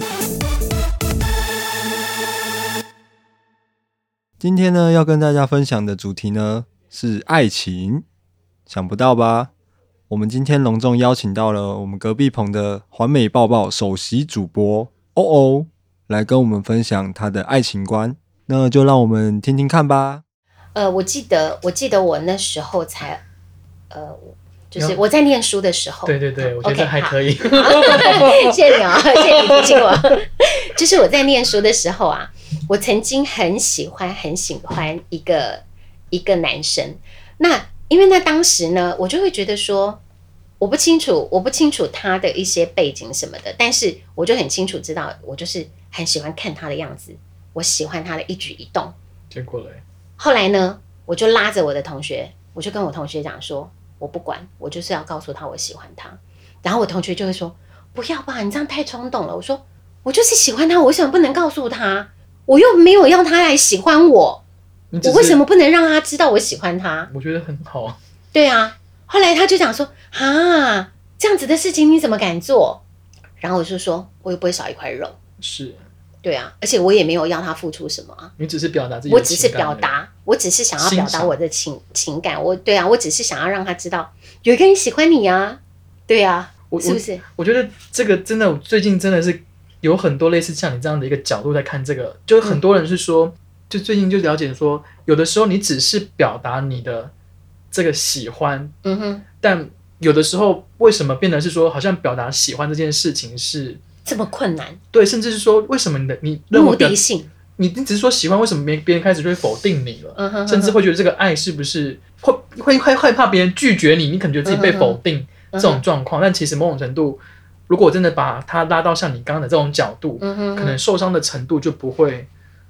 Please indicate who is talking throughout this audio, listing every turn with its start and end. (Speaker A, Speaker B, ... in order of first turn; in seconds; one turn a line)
Speaker A: 4.4-8.1
Speaker A: 8.7-9.5
Speaker A: 10.1-20.2
Speaker B: 20.8-23.2
Speaker B: 23.9-40.0
Speaker C: 26.1-30.0
Speaker B: 40.6-49.0
Speaker C: 49.3-49.8
Speaker B: 50.2-64.4
Speaker C: 64.9-65.4
Speaker B: 65.0-67.1
Speaker C: 67.1-68.0
Speaker B: 68.3-72.8
Speaker B: 73.4-75.2
Speaker C: 75.4-75.8
Speaker B: 76.2-78.3
Speaker C: 78.4-79.9
Speaker B: 79.1-87.2
Speaker C: 80.8-81.4
Speaker C: 86.7-97.1
Speaker C: 97.7-98.7
Speaker B: 98.8-99.2
Speaker C: 99.4-103.8
Speaker B: 104.1-104.8
Speaker C: 104.9-107.0
Speaker B: 106.5-107.3
Speaker C: 107.6-122.3
Speaker B: 110.2-110.8
Speaker B: 114.5-115.0
Speaker B: 115.5-115.8
Speaker B: 120.2-120.8